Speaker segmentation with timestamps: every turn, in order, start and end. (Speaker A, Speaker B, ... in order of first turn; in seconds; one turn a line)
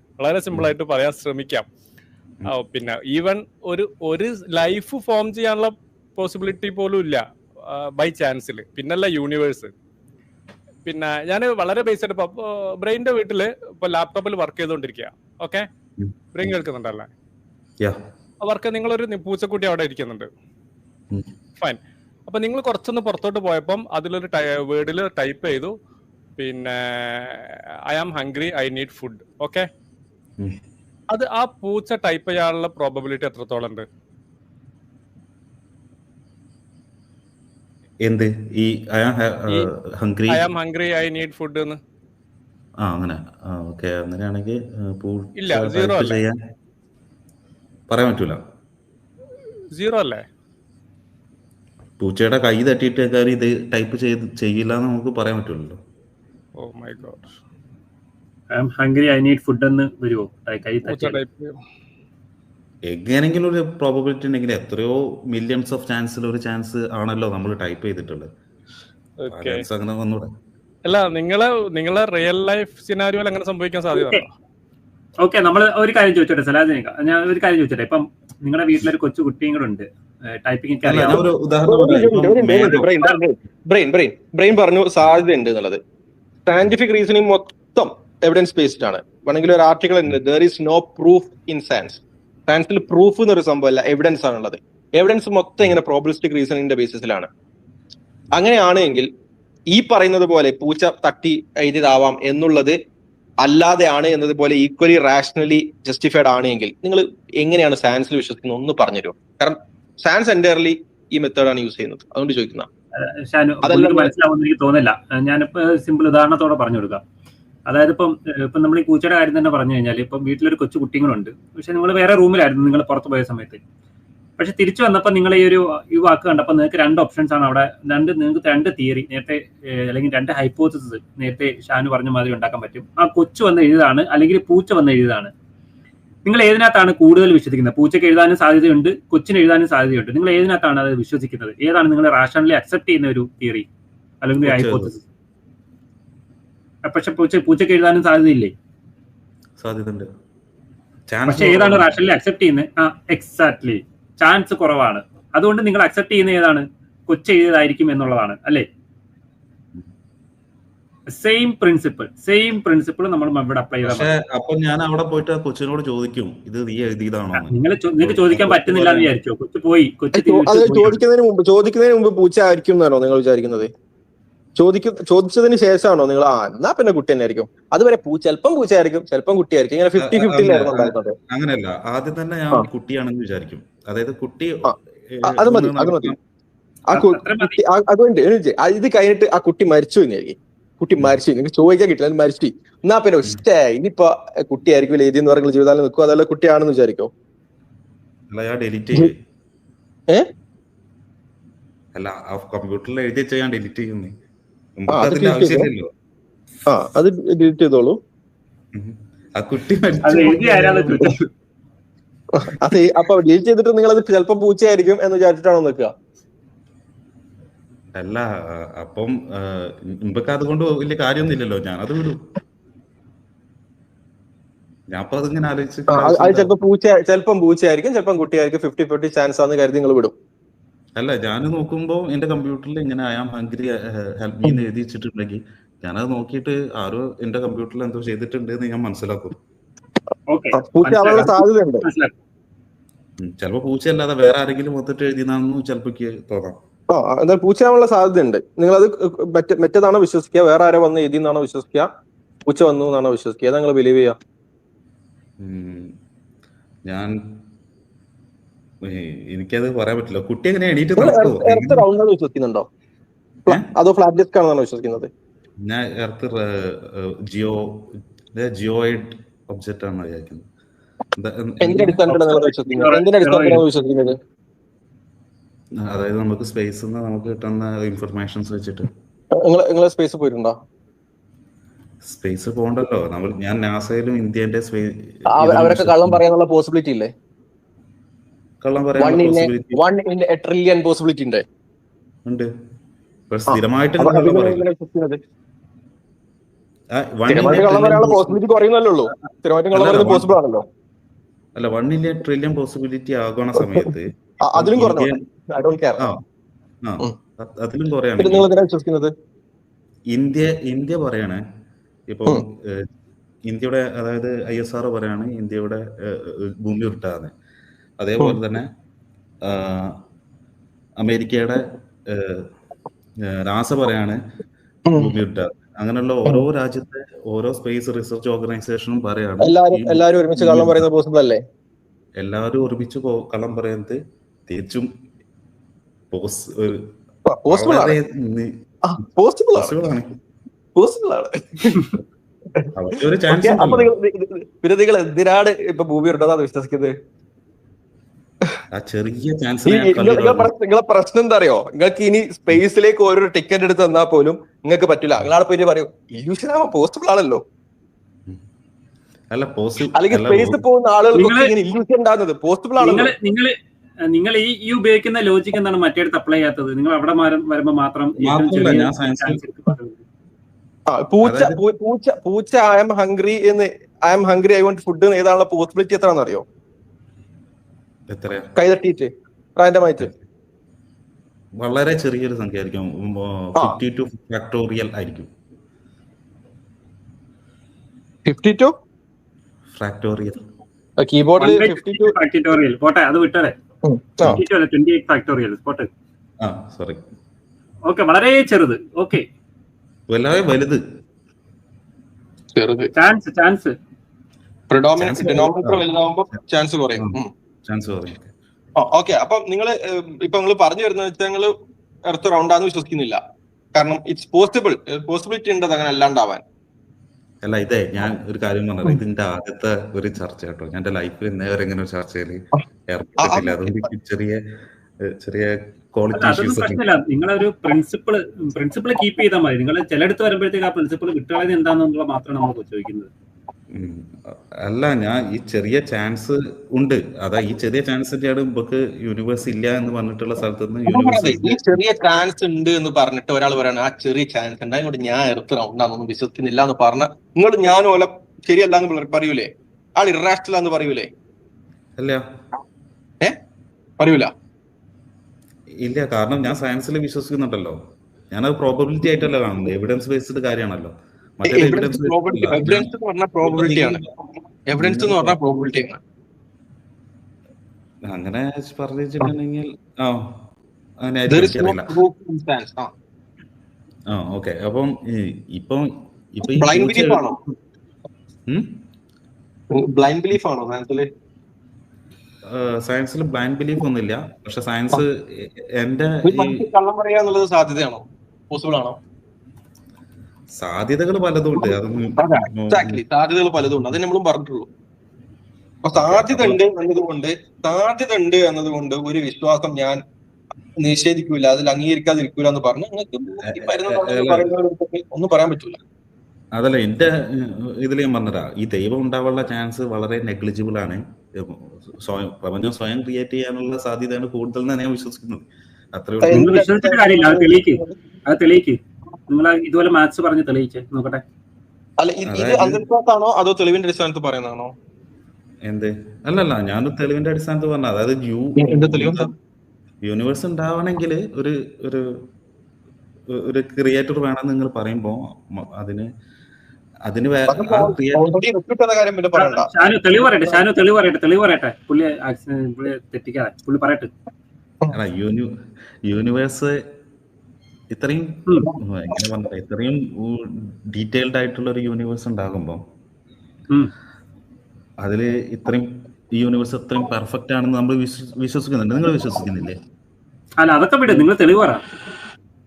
Speaker A: 0.2-1.6
Speaker A: 2.5-9.7
Speaker A: 10.8-15.7
Speaker B: 16.0-16.5
Speaker A: 16.3-17.1
Speaker A: 18.4-20.3
Speaker A: 21.6-25.7
Speaker A: 26.4-29.7
Speaker A: 31.1-33.9
Speaker B: 38.0-40.5
Speaker A: 40.3-41.8
Speaker B: 42.8-46.3
Speaker A: 45.4-46.2
Speaker B: 47.9-48.4
Speaker A: 49.7-50.2
Speaker B: 52.0-55.8
Speaker A: 56.6-57.3
Speaker C: 58.5-61.2
Speaker A: 60.9-61.5
Speaker B: 62.9-68.3
Speaker A: 69.2-69.6
Speaker B: 69.3-70.3
Speaker A: 70.8-74.3
Speaker C: 73.9-74.2
Speaker C: 75.2-81.3
Speaker B: 80.8-82.9
Speaker D: 81.7-85.8
Speaker D: 86.5-97.3
Speaker D: 98.3-99.1
Speaker D: 99.7-102.8
Speaker D: 103.4-112.7
Speaker C: 113.0-117.0
Speaker D: 113.6-114.1
Speaker C: 117.7-123.6
Speaker C: 124.4-135.3
Speaker C: 136.2-143.7
Speaker C: 144.2-145.0
Speaker B: 144.4-144.9
Speaker C: 146.8-148.5
Speaker B: 149.6-150.1
Speaker B: 151.1-151.9
Speaker C: 151.3-158.6
Speaker C: 161.1-164.1
Speaker B: 163.8-169.1
Speaker C: 167.3-171.0
Speaker D: 170.1-173.7
Speaker D: 174.6-181.1
Speaker B: 180.0-186.2
Speaker D: 185.2-186.1
Speaker D: 186.9-197.1
Speaker C: 186.9-187.6
Speaker B: 198.3-199.1
Speaker B: 201.9-204.1
Speaker B: 204.8-205.9
Speaker D: 204.9-205.7
Speaker D: 206.7-208.0
Speaker B: 208.7-211.0
Speaker C: 210.0-211.3
Speaker D: 212.4-215.9
Speaker B: 217.9-222.2
Speaker B: 224.9-226.5
Speaker D: 225.9-230.1
Speaker B: 231.0-239.3
Speaker C: 240.3-242.1
Speaker D: 240.6-241.8
Speaker B: 243.2-246.6
Speaker D: 246.9-251.9
Speaker D: 252.4-254.2
Speaker B: 255.4-255.9
Speaker B: 256.9-257.1
Speaker B: 258.9-261.8
Speaker D: 261.0-262.6
Speaker D: 263.5-265.1
Speaker B: 265.6-267.8
Speaker B: 268.3-270.4
Speaker B: 271.1-272.0
Speaker D: 271.6-274.1
Speaker C: 272.1-273.6
Speaker B: 275.9-278.9
Speaker D: 279.4-280.5
Speaker B: 282.1-286.2
Speaker D: 285.3-287.1
Speaker B: 288.6-289.8
Speaker D: 289.0-291.4
Speaker B: 293.3-294.6
Speaker D: 293.5-295.2
Speaker B: 296.9-298.4
Speaker D: 297.3-300.6
Speaker B: 299.7-300.3
Speaker B: 301.6-305.1
Speaker D: 304.5-306.1
Speaker B: 306.8-308.5
Speaker D: 308.2-309.1
Speaker B: 310.1-311.4
Speaker B: 312.1-312.9
Speaker B: 313.4-317.3
Speaker B: 318.0-318.7
Speaker B: 319.4-319.9
Speaker B: 321.0-322.4
Speaker B: 323.4-324.2
Speaker D: 324.9-325.1
Speaker B: 325.0-330.9
Speaker D: 329.4-331.4
Speaker B: 332.2-334.9
Speaker B: 336.1-336.8
Speaker D: 337.3-337.9
Speaker B: 337.5-338.5
Speaker D: 338.8-339.8
Speaker B: 339.5-340.1
Speaker D: 340.8-341.9
Speaker B: 342.8-343.9
Speaker D: 343.3-346.9
Speaker B: 348.7-350.5
Speaker D: 349.7-357.4
Speaker B: 359.3-360.6
Speaker D: 359.9-363.1
Speaker C: 361.1-361.5
Speaker C: 362.8-363.5
Speaker C: 364.1-370.0
Speaker B: 368.2-369.4
Speaker D: 370.9-376.4
Speaker B: 371.2-371.6
Speaker B: 378.1-378.5
Speaker D: 378.6-380.1
Speaker B: 381.6-385.3
Speaker D: 388.2-388.7
Speaker B: 389.7-390.4
Speaker D: 391.0-392.1
Speaker C: 391.4-393.5
Speaker D: 393.8-394.4
Speaker C: 394.2-395.9
Speaker B: 396.4-397.0
Speaker C: 397.9-399.2
Speaker B: 400.1-400.8
Speaker D: 402.6-402.9
Speaker C: 402.9-403.7
Speaker D: 404.7-407.3
Speaker B: 405.0-405.8
Speaker B: 407.7-408.3
Speaker D: 408.8-411.5
Speaker D: 412.1-413.2
Speaker D: 413.7-416.4
Speaker B: 417.4-424.4
Speaker D: 423.2-423.7
Speaker B: 425.1-426.8
Speaker C: 426.1-433.1
Speaker B: 433.7-434.1
Speaker B: 434.6-441.6
Speaker D: 440.9-451.1
Speaker B: 452.0-452.2
Speaker D: 454.0-454.3
Speaker B: 455.8-457.8
Speaker B: 458.3-462.9
Speaker D: 461.5-464.0
Speaker B: 463.4-464.0
Speaker D: 464.7-466.0
Speaker B: 464.7-465.4
Speaker B: 468.1-470.2
Speaker B: 471.0-471.9
Speaker D: 471.3-472.9
Speaker B: 474.1-477.2
Speaker D: 476.6-477.4
Speaker D: 479.7-481.1
Speaker B: 482.5-486.6
Speaker D: 486.2-489.0
Speaker B: 490.6-493.0
Speaker D: 491.6-494.7
Speaker B: 493.6-493.9
Speaker D: 495.8-500.0
Speaker B: 495.9-496.6
Speaker D: 500.8-505.8
Speaker B: 503.4-504.5
Speaker B: 506.5-516.5
Speaker D: 516.2-517.9
Speaker C: 516.3-521.2
Speaker D: 522.0-524.7
Speaker B: 522.2-522.8
Speaker B: 525.6-529.3
Speaker D: 528.6-529.3
Speaker B: 530.0-532.0
Speaker B: 533.4-536.1
Speaker B: 537.1-538.2
Speaker D: 537.5-539.7
Speaker C: 539.3-544.1
Speaker B: 544.9-545.5
Speaker B: 546.0-546.8
Speaker B: 547.9-552.8
Speaker B: 555.0-559.8
Speaker C: 560.6-561.8